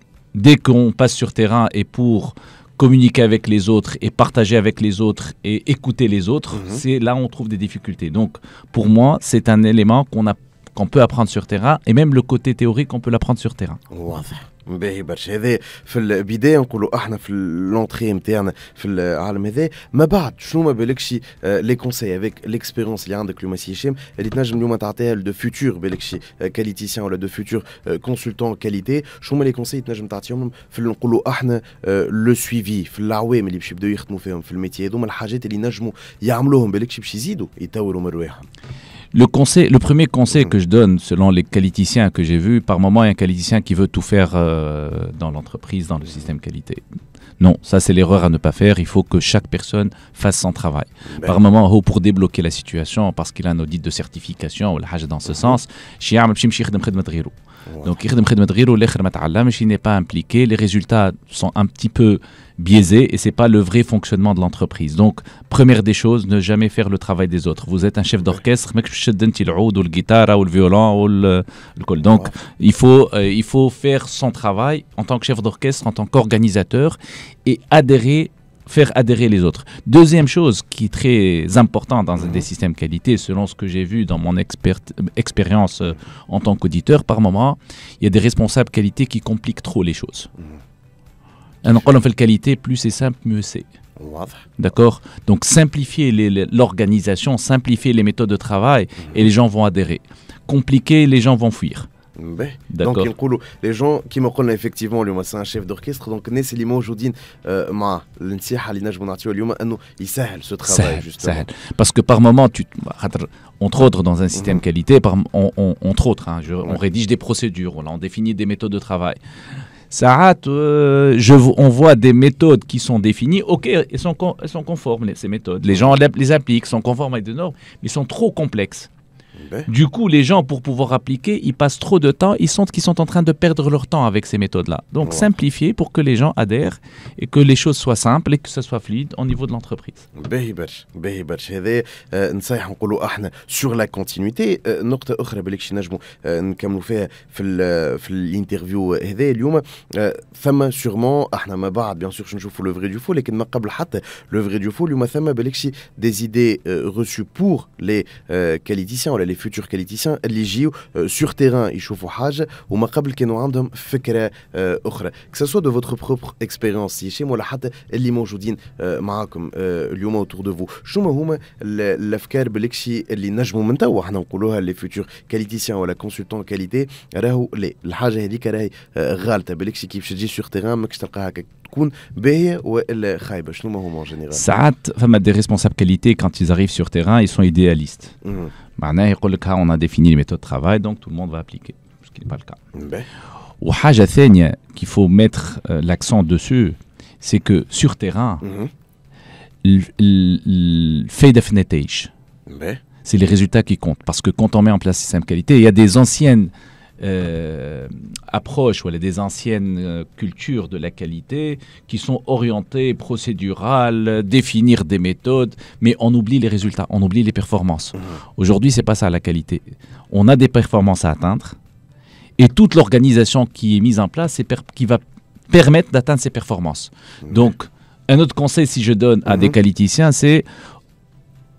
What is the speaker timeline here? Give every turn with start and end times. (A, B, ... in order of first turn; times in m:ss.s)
0:00.3-0:13.8 A
0:06.5-0:06.8 B
0:13.9-0:38.4 B
0:39.1-0:46.8 A
0:47.4-1:30.3 A
0:51.1-0:51.4 B
0:55.3-0:55.6 B
0:57.7-0:58.0 B
1:22.2-1:22.5 B
1:31.6-1:33.7 A
1:34.0-1:34.4 B
1:34.6-1:41.9 A
1:42.2-1:51.5 B
1:42.7-1:43.1 A
1:50.6-1:59.2 A
1:54.4-1:54.6 B
1:59.9-2:08.9 A
2:05.7-2:06.0 B
2:09.4-2:09.7 B
2:09.7-2:20.1 A
2:15.0-2:15.3 B
2:20.2-3:04.5 B
3:04.3-3:08.2 A
3:08.2-3:08.5 B
3:08.8-3:12.6 A
3:12.8-3:13.1 B
3:13.6-3:18.4 A
3:18.4-3:18.7 B
3:19.6-3:22.1 A
3:22.5-3:22.8 B
3:23.0-3:41.6 A
3:42.4-3:50.5 A
3:49.3-3:49.6 B